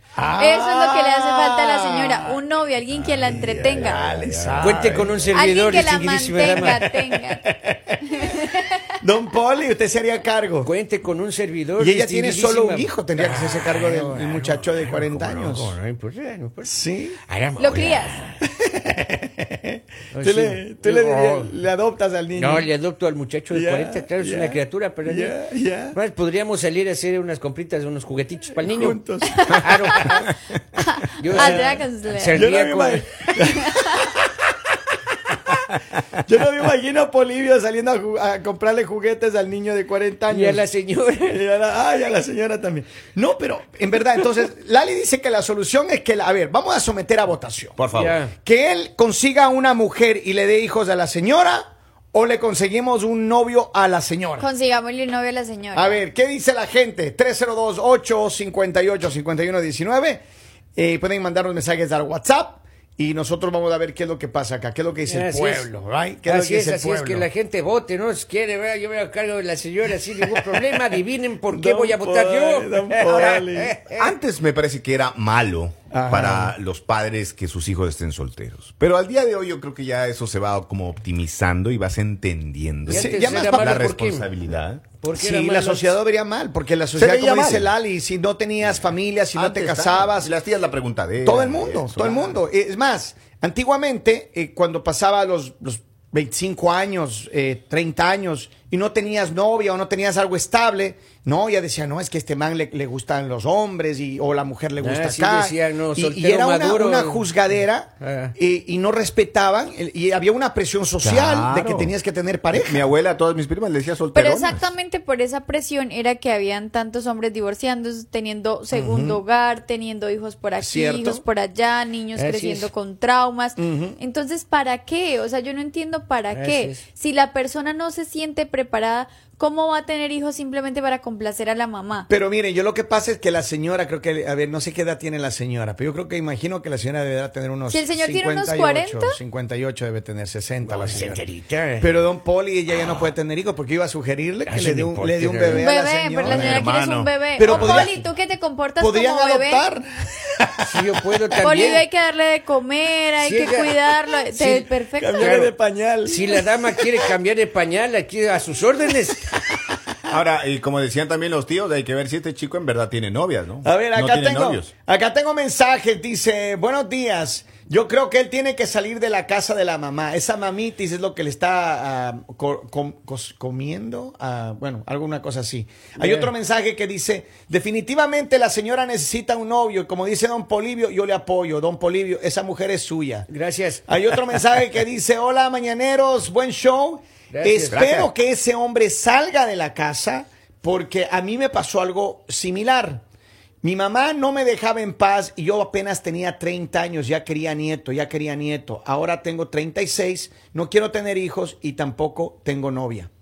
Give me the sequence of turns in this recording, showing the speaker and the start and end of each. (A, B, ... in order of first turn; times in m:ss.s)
0:00.2-0:02.4 A
0:00.3-0:04.2 B
0:02.9-0:05.2 C
0:03.2-0:05.1 A
0:04.6-0:06.9 D
0:05.3-0:07.4 B
0:07.5-0:08.4 A
0:08.0-0:08.9 B
0:09.0-0:10.7 A
0:10.6-0:16.8 D
0:11.8-0:15.8 A
0:16.6-0:17.2 A
0:17.3-0:18.3 D
0:17.6-0:18.3 B
0:18.4-0:22.7 A
0:20.1-0:21.5 D
0:22.4-0:25.4 D
0:23.5-0:26.0 A
0:25.9-0:30.3 D
0:28.6-0:30.3 A
0:29.3-0:30.2 B
0:30.8-0:32.4 B
0:31.2-0:33.3 D
0:31.3-0:31.8 A
0:32.3-0:34.3 A
0:33.6-0:34.1 B
0:36.2-0:40.6 A
0:40.3-0:41.4 D
0:41.2-0:47.8 A
0:47.8-0:48.2 C
0:47.9-0:48.3 D
0:48.4-0:54.5 A
0:54.4-0:56.0 B
0:55.7-1:00.2 A
1:00.8-1:07.3 A
1:05.1-1:05.7 D
1:06.2-1:14.1 D
1:10.2-1:10.7 A
1:11.5-1:13.8 A
1:14.0-1:24.8 C
1:15.9-1:16.6 A
1:22.9-1:23.8 A
1:22.9-1:24.3 D
1:25.0-1:25.9 D
1:25.1-1:30.3 A
1:27.0-1:27.7 C
1:29.3-1:32.4 C
1:31.2-1:52.9 A
1:44.8-1:47.4 D
1:48.0-1:48.3 D
1:51.0-1:51.9 C
1:52.5-1:54.7 C
1:54.1-2:12.1 B
1:58.7-1:59.2 A
2:00.6-2:01.2 A
2:02.2-2:02.7 D
2:03.6-2:04.0 A
2:06.3-2:06.8 D
2:12.1-2:21.2 A
2:17.7-2:19.2 B
2:20.6-2:21.9 D
2:21.8-2:26.7 A
2:24.4-2:25.7 D
2:25.5-2:29.7 B
2:26.2-2:27.8 C
2:27.3-2:28.0 A
2:28.8-2:30.7 A
2:30.6-2:31.8 D
2:31.4-2:35.4 B
2:33.2-2:33.8 D
2:34.3-2:39.4 D
2:35.0-2:37.0 A
2:40.1-2:44.7 C
2:43.6-3:03.3 A
2:56.0-2:56.3 D
3:03.3-3:03.8 D
3:03.9-3:13.0 A
3:07.3-3:07.9 D
3:07.7-3:08.1 C
3:13.6-3:23.1 A